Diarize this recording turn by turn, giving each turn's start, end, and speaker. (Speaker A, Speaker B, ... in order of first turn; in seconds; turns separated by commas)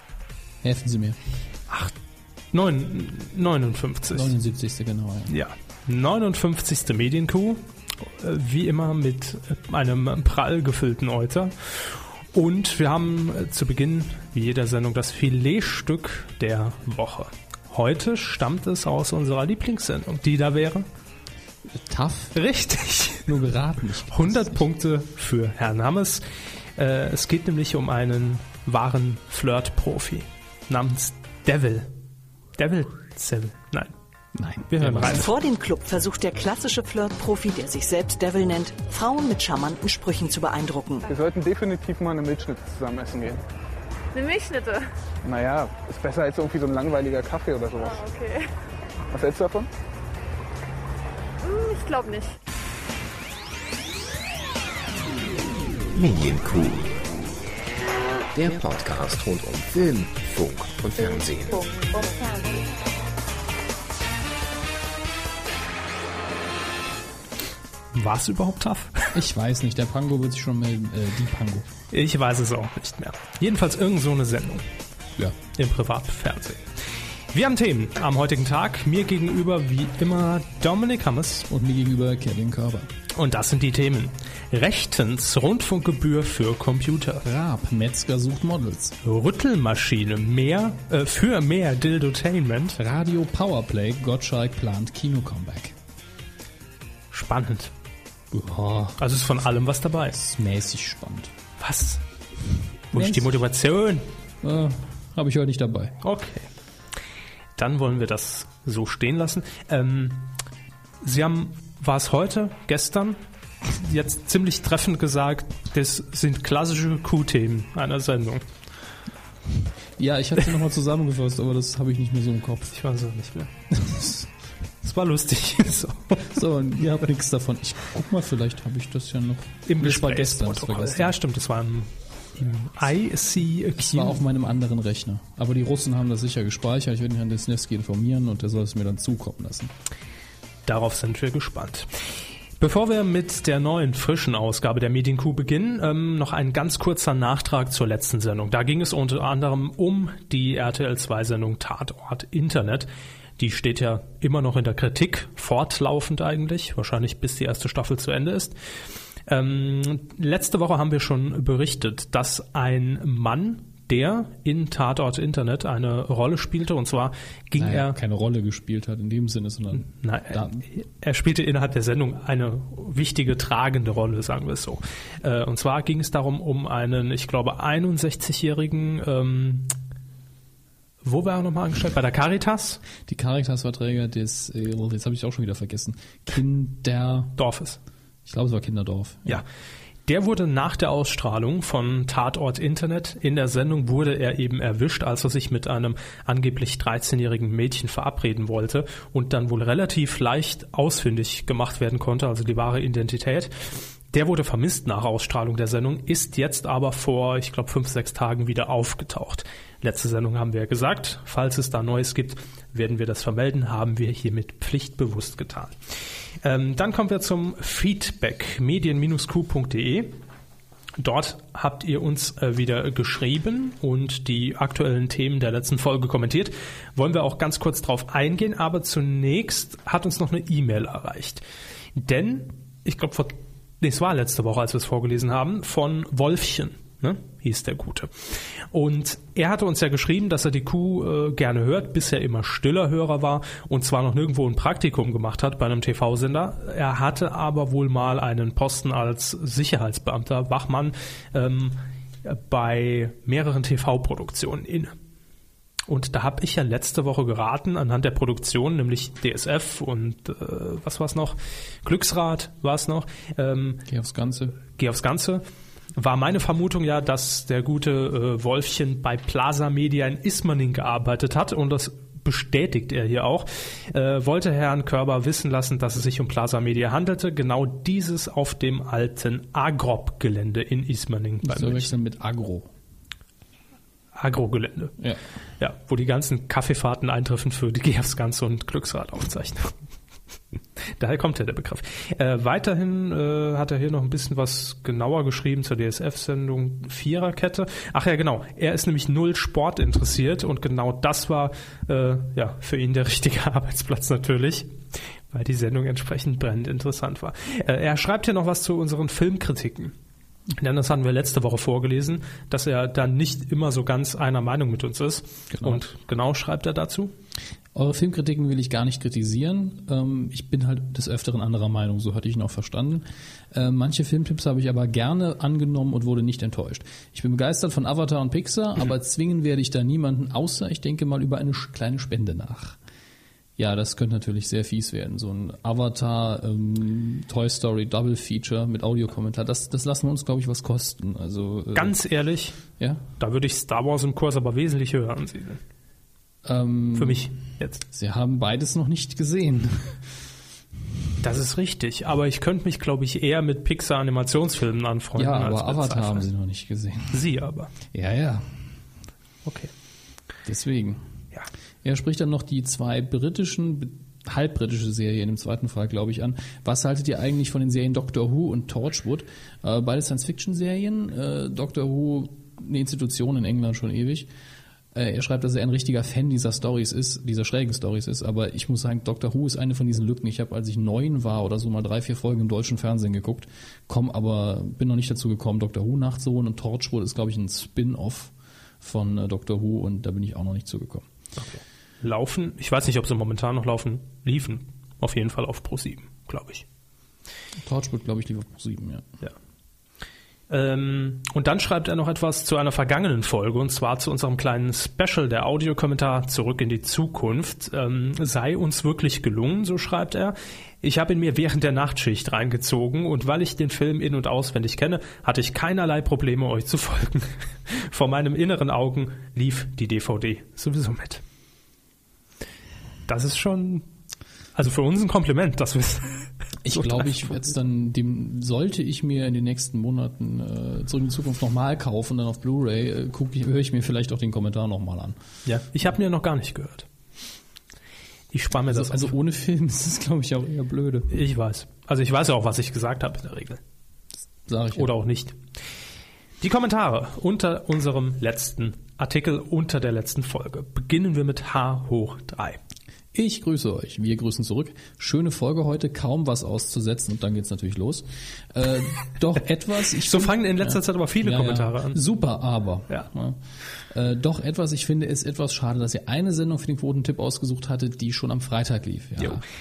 Speaker A: 0.6-1.2, Speaker B: 2.5-4.3, Speaker A: 4.1-5.3, Speaker B: 5.3-20.9, Speaker A: 21.7-22.4, Speaker B: 22.3-23.3, Speaker A: 23.2-24.6, Speaker B: 24.1-26.2, Speaker B: 26.8-31.9, Speaker B: 32.6-33.9, Speaker A: 34.3-35.3, Speaker B: 34.7-35.3, Speaker C: 35.1-41.1, Speaker D: 41.1-43.4, Speaker E: 44.1-44.8, Speaker D: 45.2-48.1, Speaker E: 48.1-48.5, Speaker D: 49.1-49.7, Speaker E: 51.5-52.4, Speaker F: 55.9-57.1, Speaker F: 58.3-62.0, Speaker B: 67.9-69.1, Speaker A: 69.1-71.7, Speaker B: 71.9-74.6, Speaker B: 75.4-76.7, Speaker B: 77.3-81.5, Speaker A: 81.5-82.9, Speaker B: 83.1-87.2, Speaker A: 87.2-89.0, Speaker B: 89.0-92.8, Speaker A: 92.8-95.7, Speaker B: 97.1-97.7, Speaker A: 98.3-99.0, Speaker B: 99.0-100.2, Speaker A: 100.1-101.3, Speaker B: 101.6-102.0, Speaker B: 102.9-104.1, Speaker A: 102.9-103.4, Speaker A: 104.4-106.0, Speaker B: 106.0-106.5, Speaker B: 107.6-110.3, Speaker B: 111.0-113.2, Speaker B: 113.7-118.4, Speaker A: 120.0-122.7, Speaker B: 122.7-123.5, Speaker A: 123.7-124.3, Speaker B: 124.8-126.4, Speaker A: 126.3-131.1, Speaker B: 129.7-134.2, Speaker A: 133.8-139.7, Speaker B: 140.7-141.9, Speaker B: 142.6-158.5, Speaker B: 159.3-167.9, Speaker A: 167.5-170.6, Speaker B: 169.9-179.7, Speaker B: 181.0-182.8, Speaker A: 183.1-187.3, Speaker B: 187.4-187.8, Speaker A: 188.2-189.4, Speaker B: 190.1-203.5, Speaker B: 204.1-215.7, Speaker B: 216.4-220.1, Speaker B: 221.0-231.4, Speaker B: 231.9-238.1, Speaker B: 238.7-254.9, Speaker B: 255.9-263.9, Speaker A: 263.9-264.6, Speaker B: 264.7-265.4, Speaker B: 265.9-281.9, Speaker A: 281.4-282.7, Speaker B: 284.1-284.9, Speaker B: 285.6-289.8, Speaker B: 291.0-304.7, Speaker B: 305.3-309.9, Speaker B: 310.6-317.1, Speaker A: 315.5-315.8, Speaker A: 317.7-332.8, Speaker A: 333.6-341.9, Speaker B: 341.7-342.6, Speaker A: 342.8-343.0, Speaker B: 343.2-345.6, Speaker A: 346.4-347.3, Speaker B: 346.9-347.8, Speaker A: 347.9-350.0, Speaker B: 351.2-356.2, Speaker A: 355.1-357.2, Speaker B: 357.1-357.7, Speaker A: 357.9-358.4, Speaker B: 359.4-359.7, Speaker A: 360.4-361.0, Speaker A: 361.8-374.3, Speaker A: 374.9-391.1, Speaker B: 391.4-396.6, Speaker A: 397.6-399.1, Speaker B: 400.5-421.2, Speaker B: 423.1-423.8, Speaker B: 424.6-427.0, Speaker A: 426.6-435.1, Speaker B: 435.4-436.9, Speaker B: 438.3-439.1, Speaker A: 438.7-441.1, Speaker B: 441.1-443.6, Speaker A: 444.4-444.9, Speaker B: 444.7-445.4, Speaker B: 446.4-452.6, Speaker A: 453.1-469.4, Speaker B: 460.0-462.0